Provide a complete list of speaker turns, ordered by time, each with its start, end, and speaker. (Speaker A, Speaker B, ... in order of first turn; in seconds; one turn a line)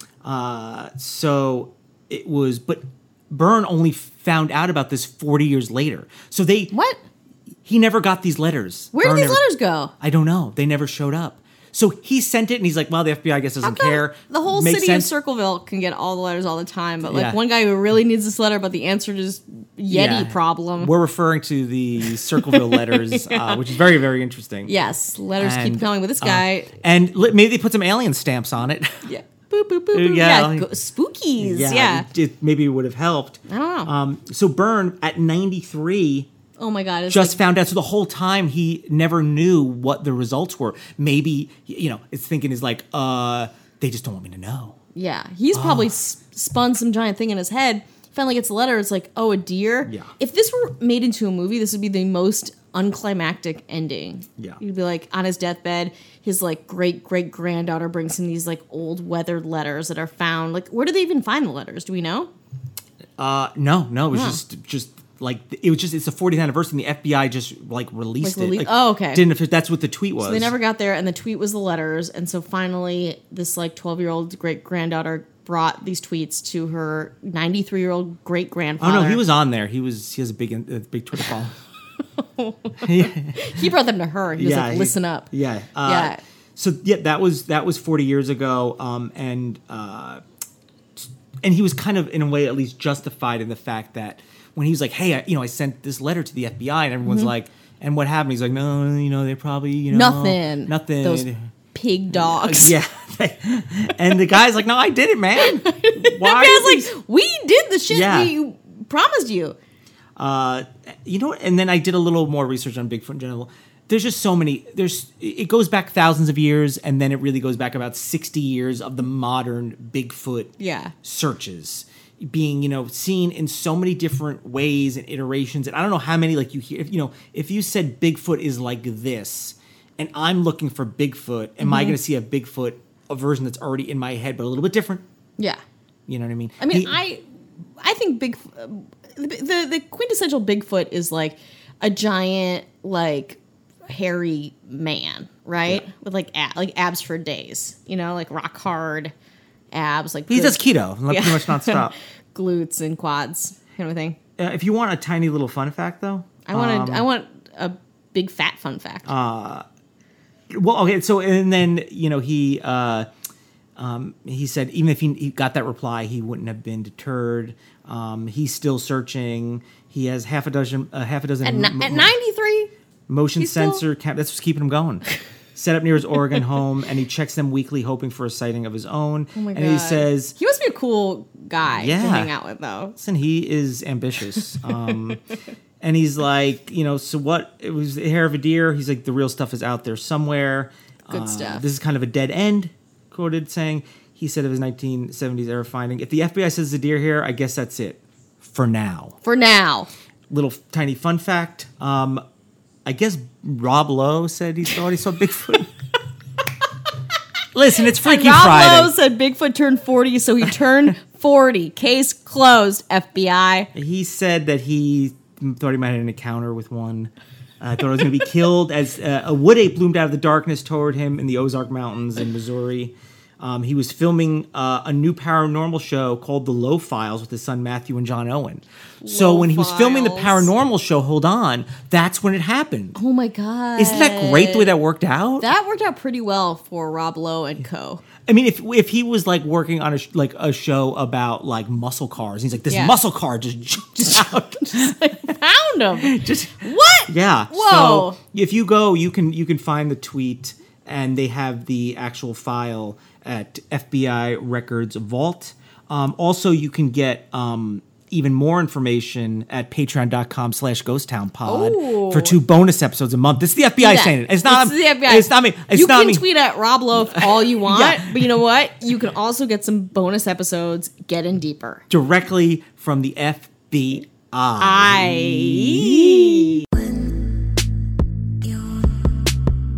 Speaker A: 0.2-6.7
Speaker B: 6.7-7.0
Speaker A: 7.6-9.4
Speaker B: 8.9-9.9
Speaker A: 10.0-15.1
Speaker B: 13.6-20.9
Speaker A: 17.1-17.4
Speaker A: 19.9-24.7
Speaker B: 22.3-23.8
Speaker B: 24.6-26.7
Speaker A: 25.4-29.1
Speaker B: 29.1-32.1
Speaker A: 29.9-30.7
Speaker A: 31.4-36.3
Speaker B: 33.5-33.9
Speaker B: 36.6-37.4
Speaker A: 37.1-44.8
Speaker B: 44.9-62.3
Speaker A: 45.5-45.9
Speaker A: 49.8-50.1
Speaker A: 63.2-70.5
Speaker B: 64.1-64.4
Speaker B: 68.2-69.3
Speaker B: 70.2-79.2
Speaker A: 78.8-81.5
Speaker B: 82.2-85.3
Speaker A: 82.8-83.7
Speaker A: 84.4-90.2
Speaker B: 85.8-86.2
Speaker A: 91.0-101.4
Speaker B: 97.0-97.3
Speaker B: 99.9-102.8
Speaker A: 102.1-106.9
Speaker B: 105.4-109.5
Speaker A: 107.9-108.3
Speaker A: 110.2-135.0
Speaker B: 120.6-120.9
Speaker B: 131.6-132.0
Speaker A: 136.1-137.0
Speaker B: 136.6-137.2
Speaker B: 137.8-149.1
Speaker B: 149.7-154.2
Speaker A: 150.3-151.9
Speaker A: 154.4-157.1
Speaker B: 156.4-159.1
Speaker A: 159.1-159.7
Speaker A: 160.5-163.1
Speaker A: 163.8-172.1
Speaker B: 171.4-172.7
Speaker A: 173.1-180.3
Speaker B: 173.4-173.8
Speaker B: 179.3-182.9
Speaker A: 181.7-182.3
Speaker A: 182.9-185.2
Speaker A: 185.8-199.2
Speaker B: 191.1-191.6
Speaker B: 199.2-199.9
Speaker A: 200.3-202.2
Speaker A: 202.8-205.7
Speaker A: 207.5-208.9
Speaker B: 207.9-213.7
Speaker A: 213.7-233.0
Speaker B: 229.0-230.5
Speaker B: 232.9-234.7
Speaker A: 233.8-235.5
Speaker B: 235.4-238.0
Speaker A: 238.2-245.2
Speaker B: 242.7-243.0
Speaker B: 244.1-248.2
Speaker A: 246.0-266.3
Speaker B: 261.4-262.4
Speaker B: 263.8-271.8
Speaker A: 266.9-268.3
Speaker A: 271.9-276.4
Speaker B: 274.6-276.6